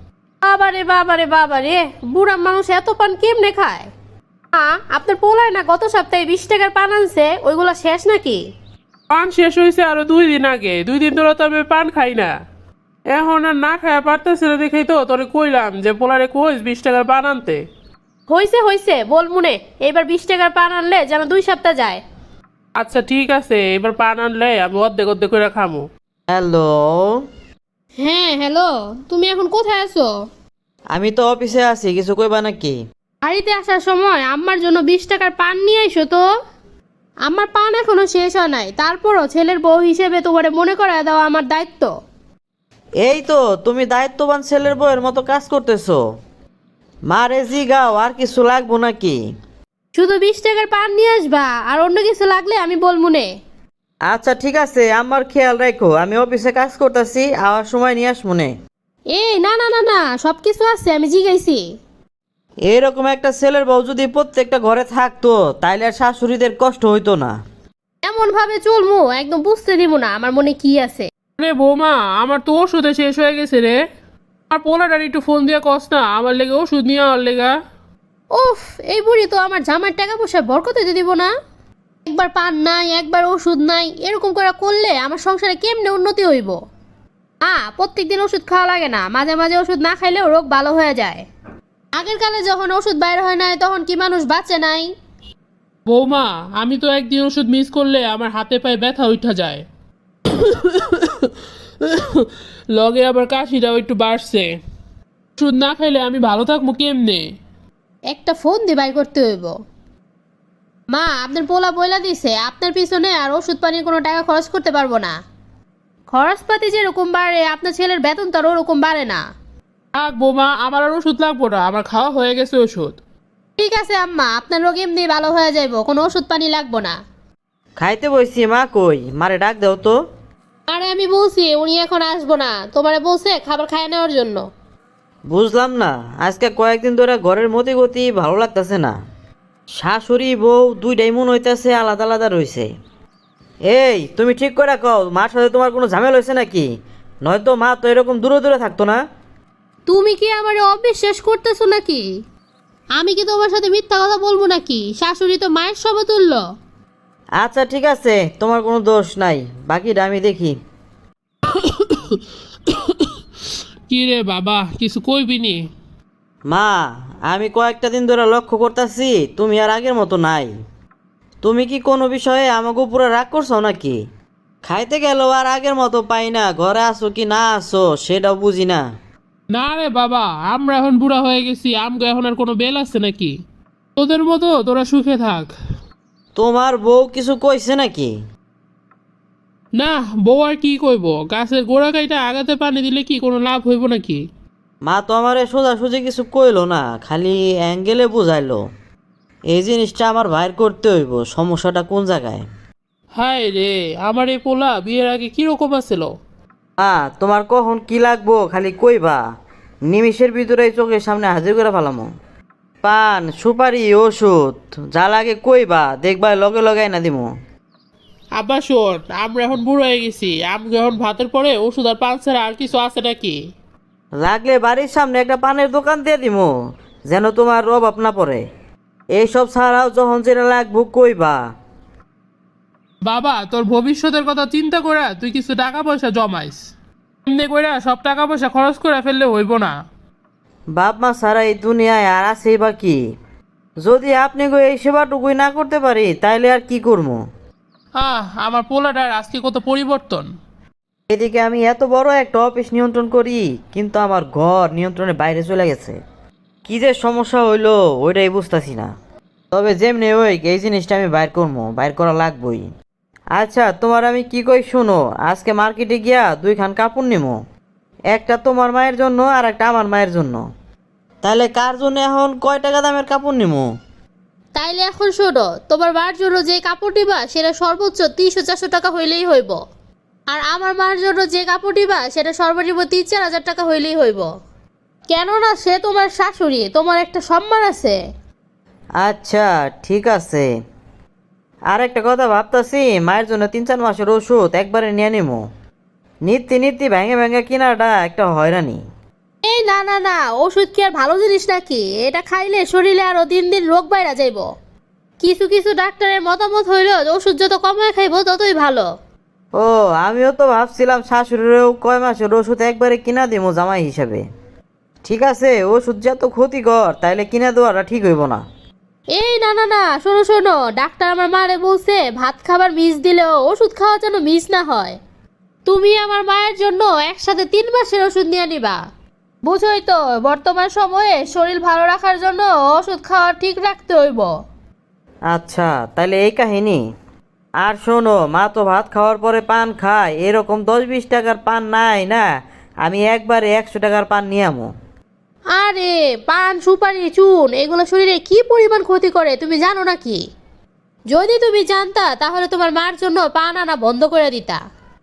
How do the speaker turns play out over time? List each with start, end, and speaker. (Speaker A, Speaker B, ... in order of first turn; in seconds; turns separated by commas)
Speaker A: 0.4-3.9, Speaker A: 4.5-8.4, Speaker B: 9.1-12.3, Speaker B: 13.1-17.6, Speaker A: 18.3-22.0, Speaker B: 22.8-25.9, Speaker C: 26.3-27.2, Speaker A: 28.0-30.1, Speaker C: 30.9-32.8, Speaker A: 33.2-36.2, Speaker A: 37.3-41.9, Speaker C: 43.0-46.0, Speaker C: 47.1-49.2, Speaker A: 49.9-53.3, Speaker C: 54.1-58.5, Speaker A: 59.1-61.6, Speaker C: 62.7-67.3, Speaker A: 68.0-71.0, Speaker B: 71.4-73.8, Speaker B: 74.5-77.5, Speaker A: 78.3-81.3, Speaker A: 82.1-86.5, Speaker A: 87.4-91.2, Speaker A: 92.0-94.9, Speaker B: 95.9-99.6, Speaker B: 100.3-104.5, Speaker B: 105.4-107.2, Speaker A: 108.1-109.5, Speaker A: 110.9-115.1, Speaker A: 116.1-119.2, Speaker B: 120.0-123.0, Speaker A: 123.6-127.0, Speaker C: 127.8-129.9, Speaker A: 130.7-134.4, Speaker C: 135.3-138.9, Speaker C: 139.8-142.7, Speaker C: 143.7-146.7, Speaker C: 147.2-149.0, Speaker A: 149.9-152.0, Speaker A: 152.9-156.4, Speaker C: 157.4-160.6, Speaker B: 161.5-163.1, Speaker B: 163.9-165.6, Speaker C: 166.5-170.5, Speaker C: 171.4-174.0, Speaker C: 174.6-178.8, Speaker B: 179.5-183.3, Speaker B: 184.0-185.5, Speaker C: 186.3-188.1, Speaker B: 189.8-194.2, Speaker C: 194.8-198.6, Speaker C: 199.5-202.4, Speaker B: 203.2-206.1, Speaker C: 206.8-209.2, Speaker C: 209.9-212.1, Speaker C: 212.8-217.3, Speaker B: 218.4-223.4, Speaker C: 224.2-226.5, Speaker C: 227.1-228.4, Speaker C: 229.1-231.4, Speaker B: 233.1-236.6, Speaker B: 237.3-239.7, Speaker C: 240.8-243.0, Speaker C: 243.8-247.2, Speaker B: 248.0-250.2, Speaker C: 251.1-255.9, Speaker C: 256.6-258.9, Speaker C: 259.5-262.7, Speaker C: 263.4-267.4, Speaker C: 268.1-270.4, Speaker C: 271.2-273.7, Speaker A: 274.6-279.6, Speaker A: 280.3-284.2, Speaker A: 285.1-287.9, Speaker C: 289.0-290.4, Speaker C: 291.7-295.4, Speaker C: 296.2-298.8, Speaker A: 299.4-304.4, Speaker A: 305.2-308.8, Speaker C: 309.6-314.2, Speaker C: 315.0-318.4, Speaker A: 319.2-324.9, Speaker A: 325.6-328.8, Speaker A: 329.4-334.3, Speaker C: 335.3-336.8, Speaker C: 337.6-342.2, Speaker C: 342.8-344.7, Speaker A: 345.6-350.2, Speaker A: 351.1-354.6